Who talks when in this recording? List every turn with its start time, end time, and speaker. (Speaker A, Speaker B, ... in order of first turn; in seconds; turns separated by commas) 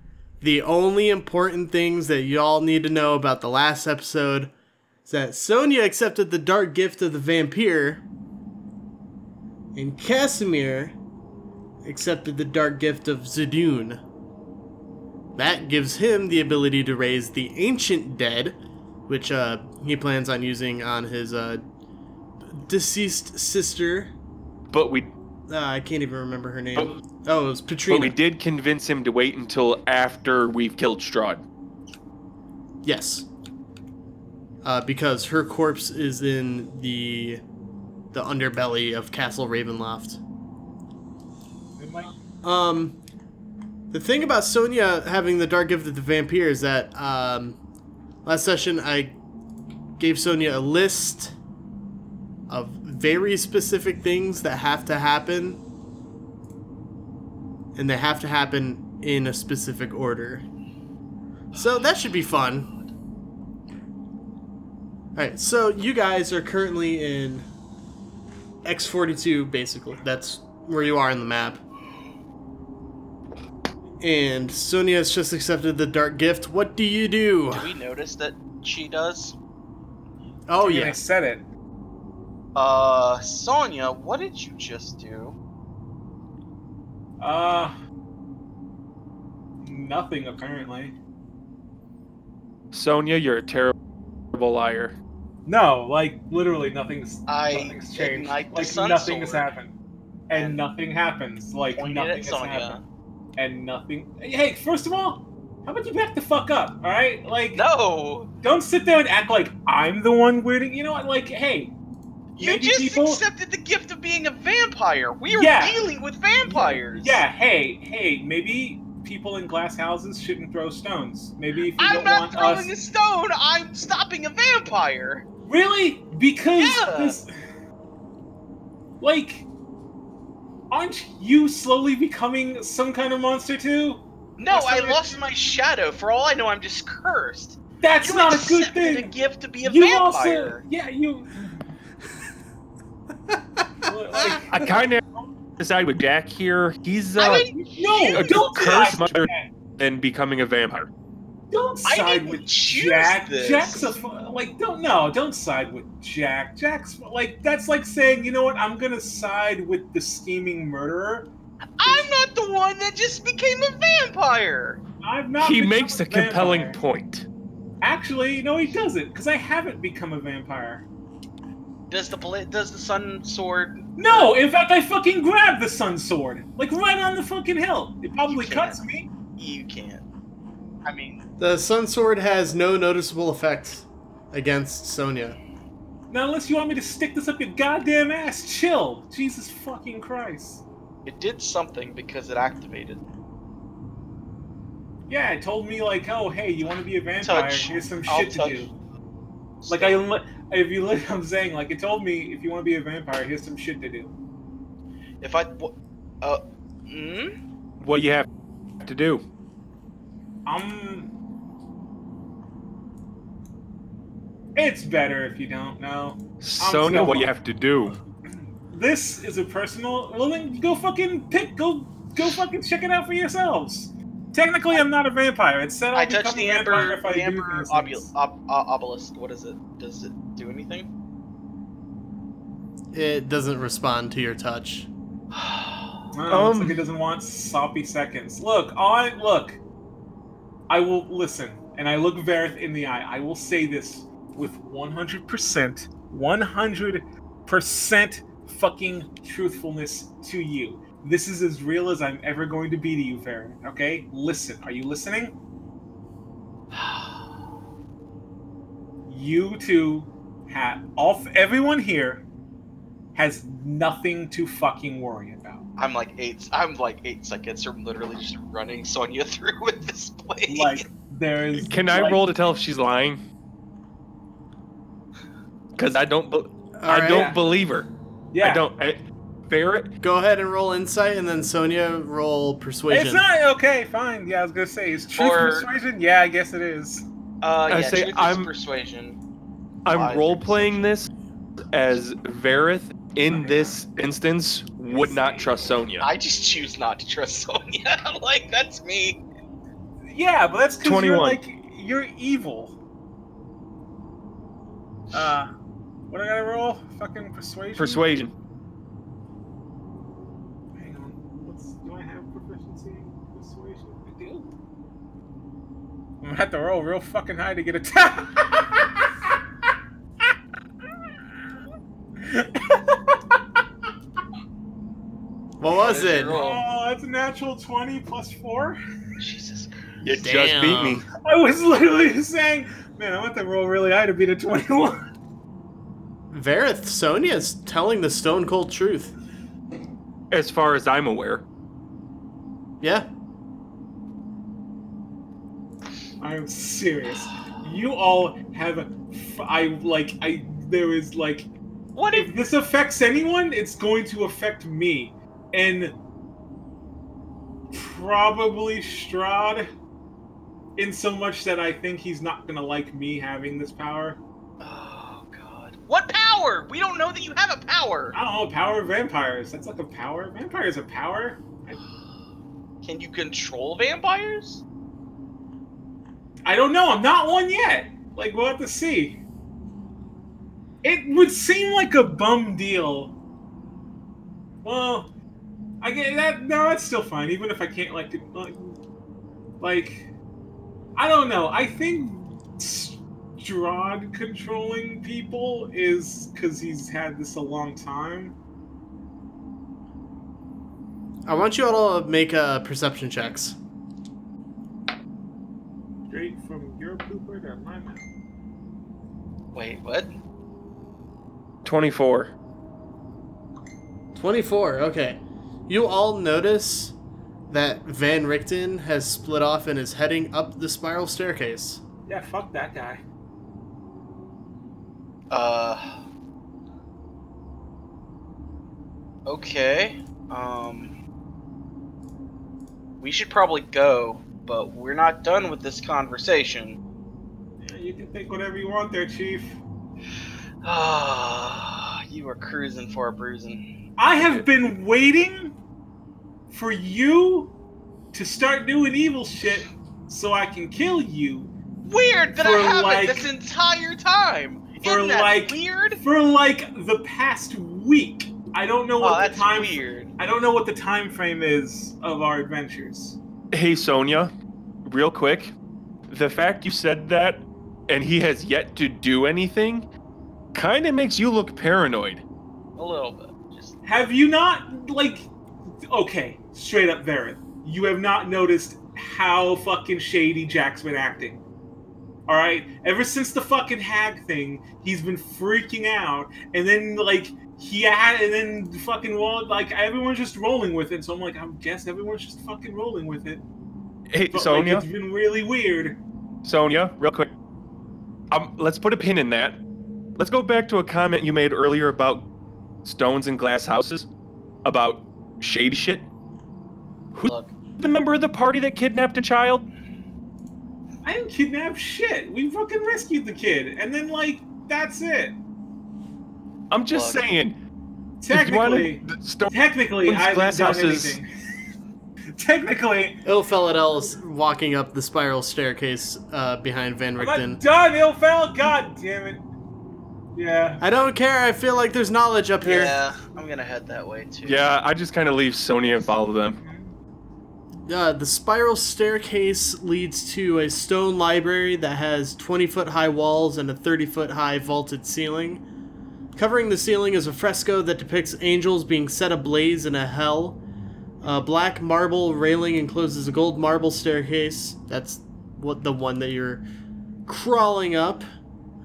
Speaker A: 0.4-4.5, Speaker A: 5.1-8.0, Speaker A: 9.8-11.0, Speaker A: 11.8-14.0, Speaker A: 15.4-18.6, Speaker A: 19.1-21.6, Speaker A: 22.5-24.1, Speaker B: 24.7-25.1, Speaker A: 25.5-28.1, Speaker B: 27.9-31.4, Speaker A: 32.8-33.3, Speaker A: 34.6-37.4, Speaker A: 38.1-40.2, Speaker C: 41.8-42.1, Speaker A: 42.4-43.0, Speaker A: 43.9-47.6, Speaker A: 48.2-49.2, Speaker A: 50.0-51.4, Speaker A: 52.5-55.6, Speaker A: 57.8-60.5, Speaker D: 61.5-61.8, Speaker A: 61.5-62.7, Speaker A: 65.2-67.5, Speaker A: 68.6-71.6, Speaker A: 74.0-77.7, Speaker D: 77.5-79.4, Speaker A: 80.5-81.0, Speaker C: 80.6-81.5, Speaker D: 82.5-85.4, Speaker C: 87.2-87.8, Speaker C: 89.6-91.0, Speaker B: 92.7-93.7, Speaker B: 94.3-95.0, Speaker C: 95.5-99.7, Speaker D: 97.3-99.5, Speaker C: 100.3-102.8, Speaker D: 100.3-100.6, Speaker D: 101.8-102.8, Speaker C: 103.4-107.6, Speaker D: 107.5-108.3, Speaker C: 108.4-111.7, Speaker D: 112.4-117.2, Speaker C: 112.4-113.2, Speaker C: 115.3-115.9, Speaker C: 116.4-122.7, Speaker D: 121.8-125.2, Speaker C: 125.5-127.3, Speaker D: 126.6-127.2, Speaker C: 129.0-129.5, Speaker C: 130.7-135.2, Speaker D: 134.4-140.6, Speaker C: 137.8-141.6, Speaker C: 143.8-144.9, Speaker B: 144.5-145.0, Speaker B: 145.6-147.6, Speaker D: 147.2-148.9, Speaker C: 147.2-149.5, Speaker B: 148.1-150.9, Speaker C: 151.5-161.3, Speaker D: 151.8-154.0, Speaker D: 161.8-164.8, Speaker C: 161.8-162.1, Speaker C: 165.0-166.8, Speaker B: 165.4-167.3, Speaker C: 167.8-170.9, Speaker D: 171.9-174.3, Speaker C: 174.0-179.1, Speaker D: 178.3-178.8, Speaker D: 179.3-180.0, Speaker D: 180.8-181.3, Speaker A: 181.4-185.4, Speaker C: 186.1-190.6, Speaker D: 191.1-193.0, Speaker C: 195.1-198.7, Speaker D: 197.2-198.7, Speaker D: 199.6-200.0, Speaker C: 199.7-204.1, Speaker D: 205.2-207.4, Speaker B: 207.8-208.3, Speaker B: 208.8-209.2, Speaker C: 210.5-211.1, Speaker C: 214.6-217.3, Speaker B: 216.4-218.0, Speaker C: 218.7-228.1, Speaker D: 225.9-230.9, Speaker A: 232.9-234.9, Speaker D: 235.3-236.0, Speaker C: 236.1-239.6, Speaker B: 236.3-236.8, Speaker C: 240.7-255.3, Speaker D: 256.7-257.2, Speaker C: 259.1-262.2, Speaker C: 263.1-265.7, Speaker D: 265.8-270.9, Speaker C: 270.5-272.2, Speaker B: 271.6-273.2, Speaker B: 275.8-277.9, Speaker A: 276.8-277.3, Speaker C: 277.1-277.4, Speaker C: 278.3-278.6, Speaker B: 278.4-279.9, Speaker A: 280.0-283.2, Speaker C: 282.9-287.1, Speaker D: 285.1-285.7, Speaker D: 287.4-289.2, Speaker B: 287.7-288.5, Speaker B: 289.9-291.1, Speaker D: 289.9-290.9, Speaker B: 291.7-296.1, Speaker C: 293.3-293.8, Speaker C: 294.9-295.7, Speaker D: 296.0-299.2, Speaker C: 300.1-302.8, Speaker B: 300.8-301.4, Speaker C: 305.1-305.5, Speaker C: 306.1-308.1, Speaker B: 307.8-308.3, Speaker C: 310.8-314.5, Speaker C: 316.2-319.3, Speaker C: 322.2-323.4, Speaker A: 325.6-326.4, Speaker D: 325.7-326.6, Speaker C: 326.3-328.8, Speaker D: 329.2-329.7, Speaker B: 330.0-331.0, Speaker A: 330.2-331.0, Speaker C: 331.2-335.0, Speaker A: 336.3-339.1, Speaker B: 340.3-341.4, Speaker A: 342.8-343.1, Speaker C: 346.2-351.5, Speaker D: 351.9-352.3, Speaker C: 352.1-355.9, Speaker C: 357.7-359.7, Speaker C: 360.8-364.2, Speaker D: 364.6-368.2, Speaker C: 368.1-371.8, Speaker D: 372.8-374.6, Speaker C: 376.4-379.2, Speaker C: 380.8-383.1, Speaker C: 384.6-385.1, Speaker C: 385.8-388.8, Speaker C: 389.6-390.1, Speaker C: 390.9-398.4, Speaker A: 401.3-403.6, Speaker C: 406.1-408.1, Speaker D: 409.5-410.1, Speaker B: 411.6-412.3, Speaker A: 414.1-416.9, Speaker A: 417.5-421.8, Speaker C: 422.1-423.0, Speaker D: 425.3-426.0, Speaker D: 429.3-431.0, Speaker D: 433.0-436.8, Speaker C: 437.6-439.6, Speaker D: 440.6-443.6, Speaker C: 444.0-445.6, Speaker B: 444.2-444.4, Speaker C: 446.5-447.6, Speaker C: 448.1-451.5, Speaker D: 451.9-456.0, Speaker C: 452.4-453.3, Speaker C: 454.8-463.2, Speaker D: 459.0-460.1, Speaker B: 463.5-464.3, Speaker B: 464.9-465.5, Speaker B: 466.1-469.9, Speaker B: 470.5-472.2, Speaker D: 472.8-473.8, Speaker C: 473.8-475.3, Speaker C: 475.9-481.4, Speaker C: 482.3-493.4, Speaker B: 494.1-494.9, Speaker C: 494.3-496.0, Speaker B: 496.4-497.3, Speaker B: 498.3-499.6, Speaker B: 500.2-502.3, Speaker B: 502.9-504.1, Speaker B: 504.6-506.1, Speaker B: 507.1-509.7, Speaker D: 507.2-507.5, Speaker C: 511.0-515.4, Speaker B: 516.7-517.6, Speaker D: 516.9-517.2, Speaker C: 518.2-521.3, Speaker B: 518.3-521.2, Speaker C: 522.3-523.2, Speaker A: 523.2-527.6, Speaker C: 527.2-529.5, Speaker C: 530.3-530.8, Speaker A: 530.8-533.0, Speaker D: 532.6-534.7, Speaker B: 534.5-536.6, Speaker C: 536.6-537.0, Speaker A: 537.9-545.6, Speaker A: 546.4-550.6, Speaker A: 551.2-556.6, Speaker A: 557.3-558.3